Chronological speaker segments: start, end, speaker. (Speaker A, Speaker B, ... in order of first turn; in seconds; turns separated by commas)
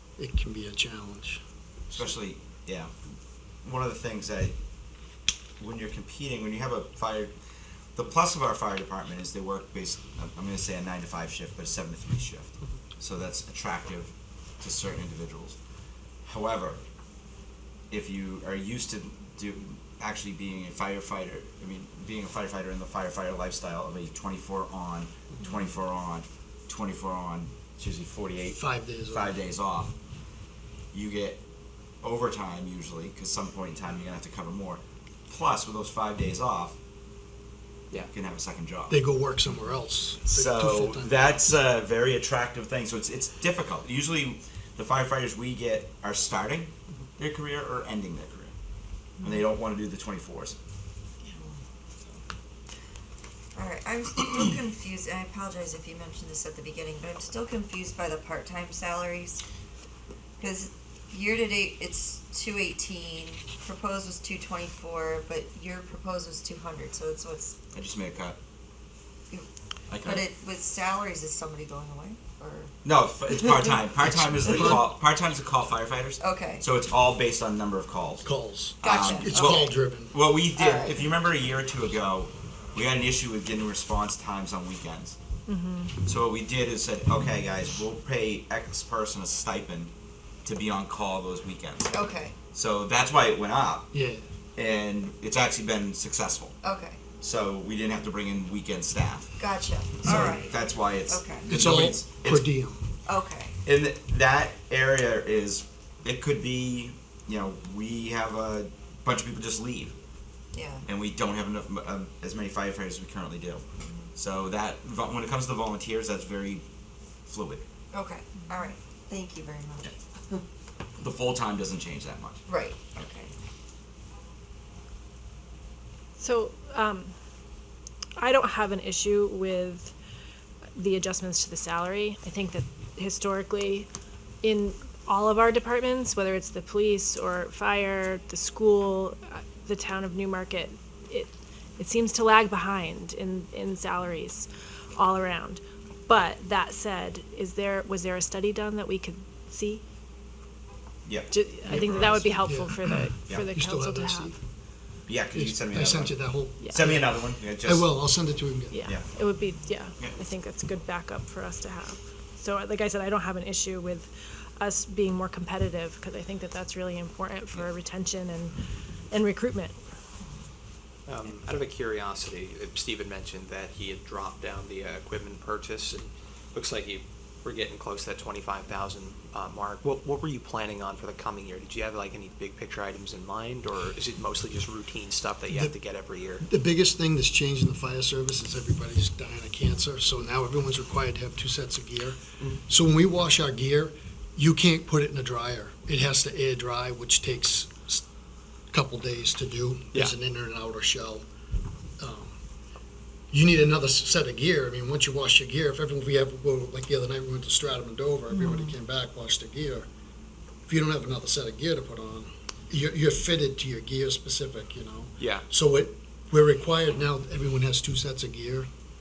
Speaker A: 0.2-1.4, Speaker B: 1.9-2.9, Speaker B: 3.6-4.5, Speaker B: 5.6-7.3, Speaker B: 8.0-15.6, Speaker B: 16.2-16.8, Speaker B: 17.9-29.9, Speaker A: 28.5-29.4, Speaker B: 30.9-31.4, Speaker B: 32.0-36.8, Speaker B: 38.0-39.0, Speaker A: 38.9-41.3, Speaker B: 40.3-48.5, Speaker B: 49.2-50.5, Speaker C: 51.2-52.2, Speaker C: 53.5-59.4, Speaker C: 60.4-67.6, Speaker B: 67.7-68.4, Speaker B: 69.9-70.3, Speaker C: 70.0-72.7, Speaker B: 72.8-78.3, Speaker A: 74.2-74.9, Speaker C: 76.2-76.6, Speaker A: 78.2-80.2, Speaker C: 78.8-79.8, Speaker B: 78.8-85.2, Speaker C: 80.6-81.0, Speaker D: 85.5-86.0, Speaker B: 86.0-89.9, Speaker B: 90.5-93.9, Speaker C: 91.9-92.4, Speaker A: 93.9-94.2, Speaker B: 94.6-96.5, Speaker C: 96.6-97.0, Speaker B: 97.2-99.3, Speaker C: 99.4-101.5, Speaker B: 100.0-102.5, Speaker A: 100.1-100.3, Speaker A: 101.5-102.8, Speaker C: 103.1-103.6, Speaker B: 103.7-110.0, Speaker C: 110.5-110.9, Speaker B: 110.9-113.6, Speaker C: 113.8-114.1, Speaker B: 114.2-116.6, Speaker B: 117.3-117.6, Speaker C: 117.9-120.4, Speaker B: 121.0-123.1, Speaker C: 122.5-123.3, Speaker D: 126.2-127.1, Speaker D: 128.2-129.9, Speaker D: 130.8-133.9, Speaker D: 134.4-149.8, Speaker B: 151.0-152.2, Speaker D: 151.3-154.3, Speaker A: 151.6-154.3, Speaker B: 155.1-157.9, Speaker A: 155.3-158.8, Speaker D: 156.6-156.9, Speaker D: 158.7-168.6, Speaker B: 158.8-159.1, Speaker D: 169.1-169.8, Speaker E: 171.1-186.4, Speaker A: 185.5-185.7, Speaker A: 186.4-198.1, Speaker A: 198.7-201.2, Speaker A: 202.0-202.4, Speaker A: 203.3-209.8, Speaker A: 210.7-218.7, Speaker E: 215.2-215.4